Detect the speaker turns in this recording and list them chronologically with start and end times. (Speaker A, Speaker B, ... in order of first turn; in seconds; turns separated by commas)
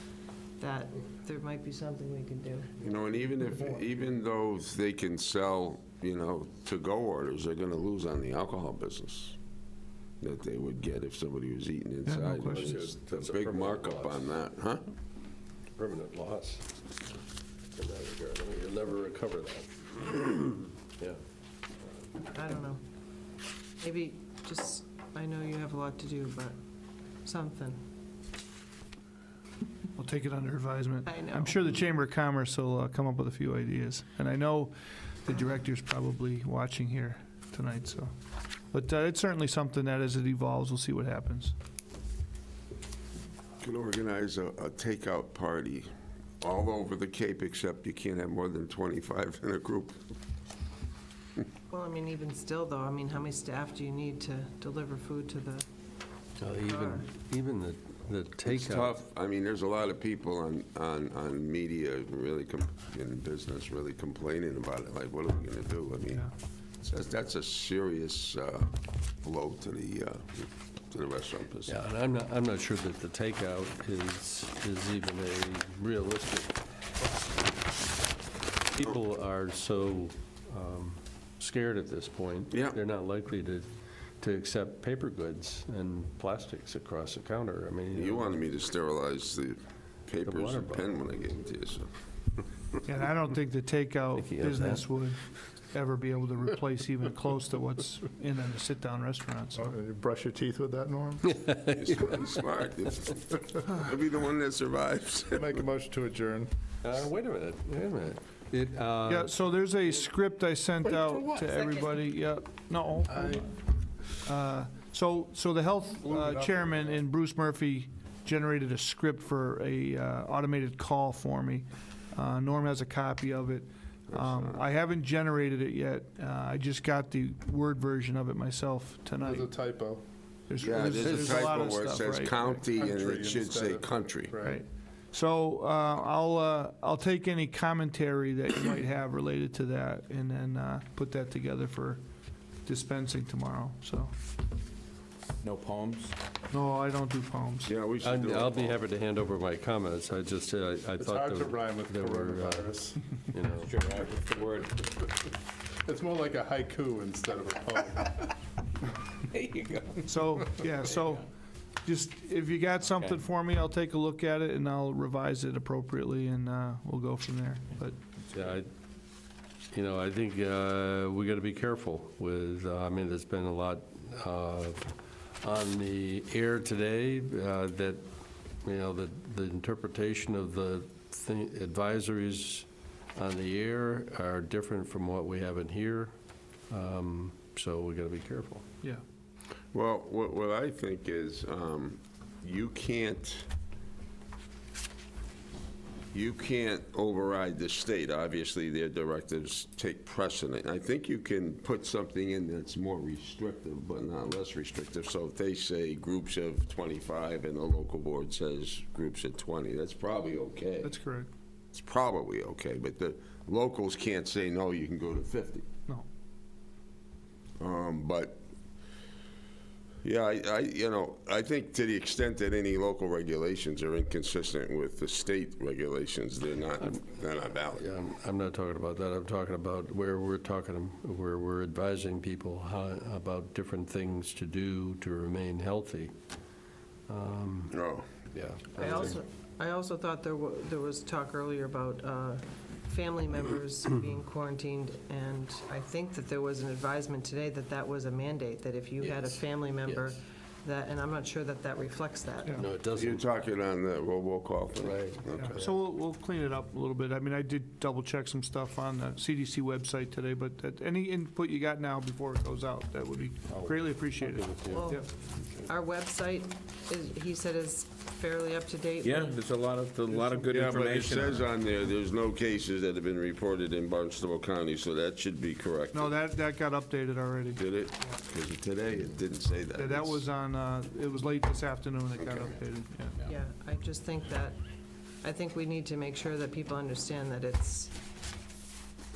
Speaker A: 0.6-2.8, Speaker B: 2.8-9.4, Speaker B: 10.2-14.8, Speaker C: 12.1-12.7, Speaker D: 12.4-14.3, Speaker D: 15.8-16.7, Speaker D: 17.8-21.2, Speaker A: 22.3-22.8, Speaker A: 23.8-26.6, Speaker A: 27.2-27.8, Speaker C: 29.9-38.1, Speaker A: 31.1-31.6, Speaker C: 38.7-41.5, Speaker B: 43.6-45.9, Speaker B: 46.4-50.0, Speaker A: 51.7-55.6, Speaker D: 56.4-59.0, Speaker A: 56.6-57.0, Speaker B: 58.5-66.2, Speaker B: 66.8-71.8, Speaker D: 71.7-76.6, Speaker D: 78.7-83.7, Speaker B: 82.5-82.8, Speaker D: 84.2-88.4, Speaker B: 87.9-91.9, Speaker D: 90.2-91.0, Speaker C: 92.8-99.8, Speaker D: 94.2-94.9, Speaker E: 99.5-101.3, Speaker D: 101.2-102.2, Speaker B: 101.8-105.6, Speaker E: 105.3-106.5, Speaker D: 106.8-109.3, Speaker C: 109.0-113.5, Speaker A: 111.3-112.1, Speaker E: 113.1-113.5, Speaker C: 114.2-129.5, Speaker E: 116.0-117.0, Speaker B: 124.1-124.6, Speaker E: 129.2-130.0, Speaker C: 130.5-132.6, Speaker B: 130.6-134.4, Speaker D: 130.9-131.5, Speaker E: 132.7-134.6, Speaker C: 134.4-142.0, Speaker C: 142.7-144.1, Speaker F: 145.4-146.2, Speaker C: 146.5-147.7, Speaker B: 147.7-148.8, Speaker D: 148.0-153.8, Speaker E: 151.0-153.1, Speaker F: 153.4-154.9, Speaker E: 155.8-158.3, Speaker F: 159.3-160.0, Speaker C: 160.1-161.2, Speaker C: 161.8-168.0, Speaker D: 168.3-168.7, Speaker D: 169.7-178.0, Speaker D: 178.6-186.1, Speaker D: 186.7-188.7, Speaker B: 189.7-193.5, Speaker B: 196.1-210.9, Speaker C: 210.8-211.3, Speaker B: 211.7-215.6, Speaker B: 217.6-218.4, Speaker B: 220.0-227.8, Speaker D: 227.7-236.1, Speaker D: 237.1-237.8, Speaker B: 237.7-238.1, Speaker D: 238.3-239.2, Speaker A: 238.8-252.7, Speaker D: 249.0-249.3, Speaker D: 249.8-250.1, Speaker D: 252.6-253.2, Speaker B: 252.9-255.7, Speaker D: 254.8-255.2, Speaker C: 255.3-265.0, Speaker F: 263.5-263.8, Speaker D: 264.2-264.9, Speaker A: 264.7-265.1, Speaker A: 265.6-269.4, Speaker F: 269.0-271.5, Speaker C: 270.2-270.5, Speaker B: 270.5-276.1, Speaker C: 275.9-277.6, Speaker B: 277.6-280.2, Speaker C: 279.8-283.2, Speaker A: 283.2-284.6, Speaker A: 285.2-287.9